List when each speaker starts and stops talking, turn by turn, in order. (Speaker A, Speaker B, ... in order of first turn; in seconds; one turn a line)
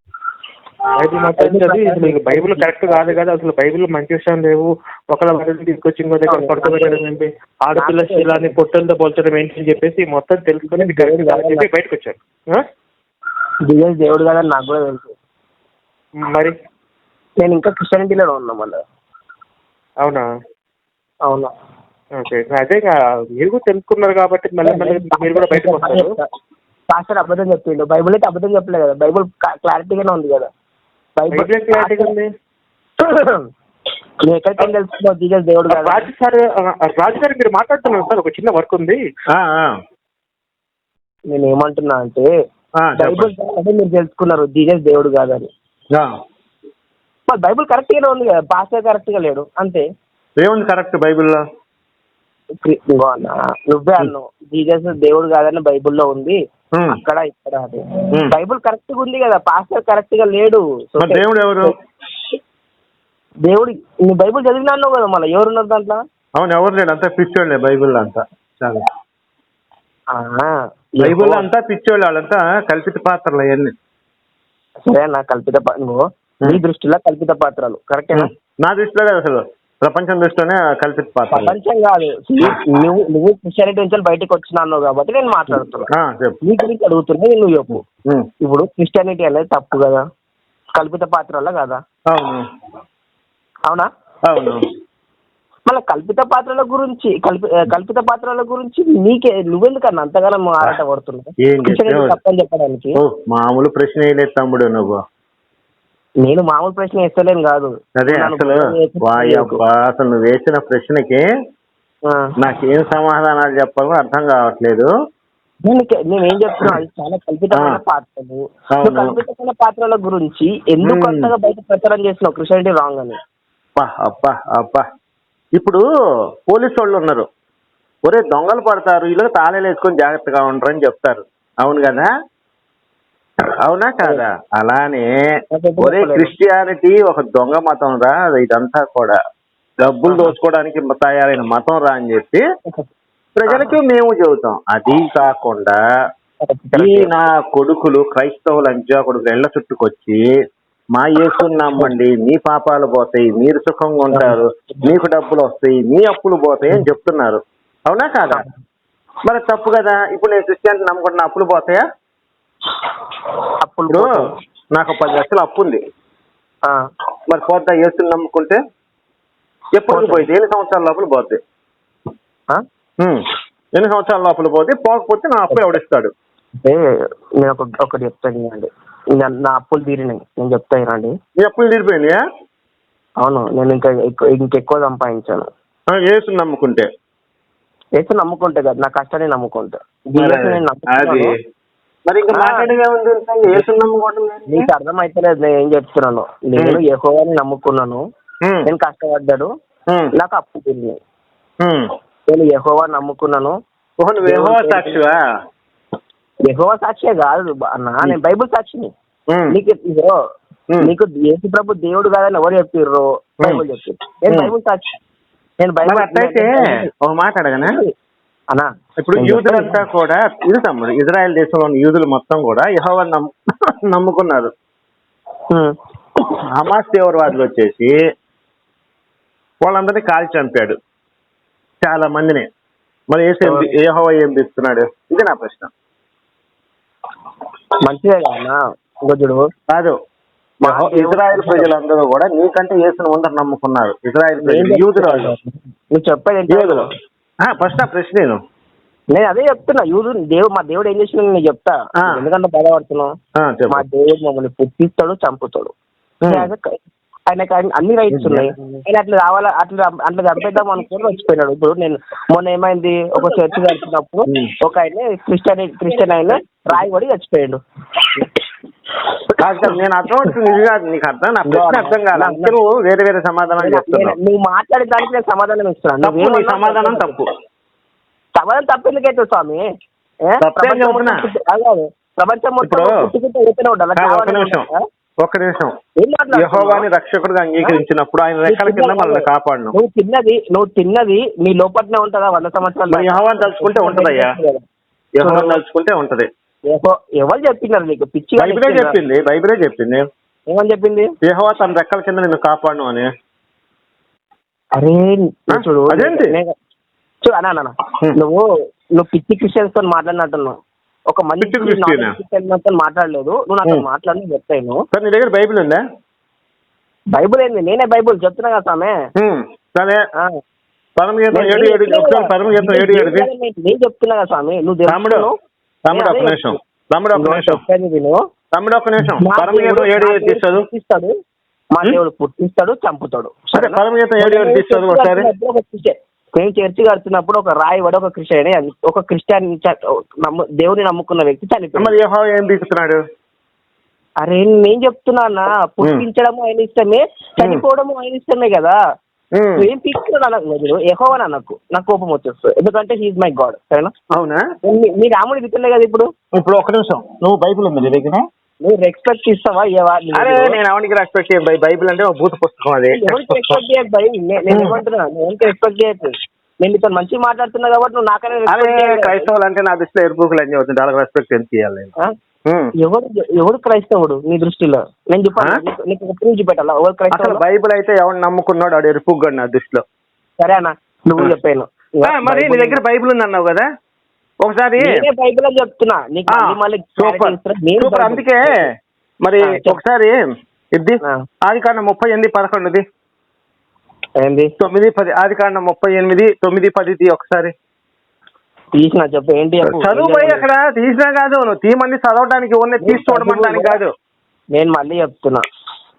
Speaker A: 1.0-12.7
Speaker B: 1.3-3.1
Speaker B: 6.3-7.1
Speaker B: 7.8-8.6
Speaker B: 10.7-11.7
Speaker B: 13.7-15.2
Speaker A: 16.2-16.5
Speaker B: 17.4-18.8
Speaker B: 21.3-21.5
Speaker A: 22.2-26.1
Speaker B: 24.6-26.2
Speaker B: 26.9-30.5
Speaker B: 31.2-32.1
Speaker A: 31.3-32.3
Speaker B: 33.0-33.5
Speaker B: 34.2-36.1
Speaker A: 35.7-39.0
Speaker C: 39.3-39.8
Speaker B: 41.3-42.3
Speaker C: 42.8-43.3
Speaker B: 43.0-45.5
Speaker B: 47.3-49.9
Speaker C: 50.4-51.4
Speaker B: 52.6-56.4
Speaker B: 56.9-61.7
Speaker C: 61.0-61.7
Speaker B: 63.4-66.0
Speaker C: 66.4-68.9
Speaker B: 70.1-71.5
Speaker C: 71.0-73.7
Speaker B: 74.9-78.3
Speaker C: 78.1-81.5
Speaker B: 81.3-85.9
Speaker C: 82.4-82.8
Speaker C: 85.9-86.4
Speaker B: 86.4-87.8
Speaker B: 88.4-90.0
Speaker B: 90.8-91.8
Speaker C: 92.1-92.5
Speaker C: 94.2-94.7
Speaker B: 95.7-103.0
Speaker C: 101.4-102.2
Speaker C: 103.0-105.0
Speaker B: 106.2-109.6
Speaker C: 108.0-111.2
Speaker B: 112.1-112.3
Speaker C: 112.4-114.9
Speaker B: 115.6-123.2
Speaker C: 117.5-117.8
Speaker C: 118.7-119.2
Speaker C: 120.8-121.3
Speaker C: 123.8-124.9
Speaker C: 125.5-125.8
Speaker C: 126.5-127.3
Speaker C: 128.0-132.1
Speaker C: 133.6-135.1
Speaker B: 135.5-136.3
Speaker C: 135.8-139.2
Speaker C: 139.8-142.4
Speaker B: 140.1-140.3
Speaker C: 143.4-145.8
Speaker B: 143.5-143.8
Speaker B: 146.4-147.1
Speaker C: 146.8-150.2
Speaker C: 150.9-158.4
Speaker B: 154.1-154.8
Speaker C: 159.2-161.8
Speaker B: 163.6-164.3
Speaker C: 164.7-165.8
Speaker C: 167.3-168.6
Speaker C: 169.7-171.4
Speaker B: 169.9-170.3
Speaker C: 173.8-176.1
Speaker B: 177.4-181.1
Speaker C: 181.4-182.2
Speaker B: 183.2-185.5
Speaker C: 185.9-186.9
Speaker B: 188.0-191.3
Speaker C: 190.2-191.3
Speaker C: 192.1-194.7
Speaker B: 192.3-192.7
Speaker B: 194.5-198.0
Speaker B: 198.7-199.5
Speaker B: 200.1-201.0
Speaker C: 201.6-201.9
Speaker B: 202.3-203.6
Speaker C: 204.0-205.2
Speaker B: 204.2-205.0
Speaker B: 206.5-208.9
Speaker C: 209.3-209.6
Speaker B: 209.5-210.2
Speaker B: 210.8-214.9
Speaker B: 215.6-216.9
Speaker C: 215.8-217.8
Speaker B: 217.6-217.9
Speaker B: 218.5-219.8
Speaker C: 219.0-224.5
Speaker C: 226.5-227.9
Speaker C: 229.6-230.8
Speaker C: 231.8-232.5
Speaker C: 233.1-235.7
Speaker B: 233.4-233.7
Speaker B: 237.8-239.4
Speaker C: 239.7-240.0
Speaker B: 240.7-241.7
Speaker C: 240.7-245.3
Speaker B: 244.4-246.9
Speaker C: 246.5-246.8
Speaker C: 247.4-248.4
Speaker B: 249.1-253.1
Speaker C: 253.4-253.8
Speaker B: 253.7-255.7
Speaker C: 256.2-256.5
Speaker B: 256.3-256.8
Speaker B: 257.3-267.6
Speaker C: 258.1-258.6
Speaker B: 269.3-270.3
Speaker C: 269.4-274.2
Speaker B: 271.4-272.5
Speaker B: 273.6-277.2
Speaker C: 276.0-277.3
Speaker B: 278.4-279.6
Speaker B: 280.3-284.8
Speaker C: 280.4-281.2
Speaker C: 282.6-283.1
Speaker C: 284.0-284.7
Speaker C: 285.2-285.8
Speaker B: 286.0-286.9
Speaker C: 286.3-289.8
Speaker B: 288.5-294.6
Speaker C: 292.9-294.4
Speaker C: 295.2-296.3
Speaker B: 295.2-295.6
Speaker B: 296.7-299.0
Speaker C: 298.4-300.1
Speaker B: 300.5-301.1
Speaker C: 301.2-303.1
Speaker B: 304.8-306.5
Speaker C: 305.5-306.3
Speaker B: 307.2-308.4
Speaker B: 309.0-310.6
Speaker B: 311.1-314.8
Speaker C: 311.4-312.2
Speaker C: 314.9-315.8
Speaker B: 317.1-318.9
Speaker C: 319.2-320.0
Speaker C: 321.0-323.3
Speaker B: 321.3-325.4
Speaker C: 324.9-325.3
Speaker C: 325.9-327.6
Speaker B: 325.9-326.6
Speaker B: 327.1-328.2
Speaker C: 328.5-330.7
Speaker B: 329.2-331.1
Speaker B: 331.7-341.9
Speaker C: 333.5-335.3
Speaker C: 341.8-343.0
Speaker B: 344.2-348.8
Speaker C: 349.4-349.6
Speaker B: 349.6-353.9
Speaker C: 354.1-354.4
Speaker B: 354.6-356.1
Speaker C: 356.3-358.2
Speaker B: 358.6-360.6
Speaker C: 360.1-363.6
Speaker B: 362.9-369.3
Speaker C: 364.5-364.8
Speaker C: 368.5-371.9
Speaker C: 372.5-372.7
Speaker B: 372.8-377.4
Speaker C: 377.1-379.8
Speaker B: 380.4-382.8
Speaker C: 382.0-383.6
Speaker C: 384.4-385.0
Speaker B: 384.8-388.6
Speaker C: 386.3-388.6
Speaker C: 389.2-390.2
Speaker B: 389.4-389.8
Speaker C: 390.7-392.8
Speaker B: 394.2-394.5
Speaker C: 394.6-397.5
Speaker B: 398.8-400.4
Speaker C: 399.7-403.9
Speaker B: 402.8-403.8
Speaker B: 404.5-405.4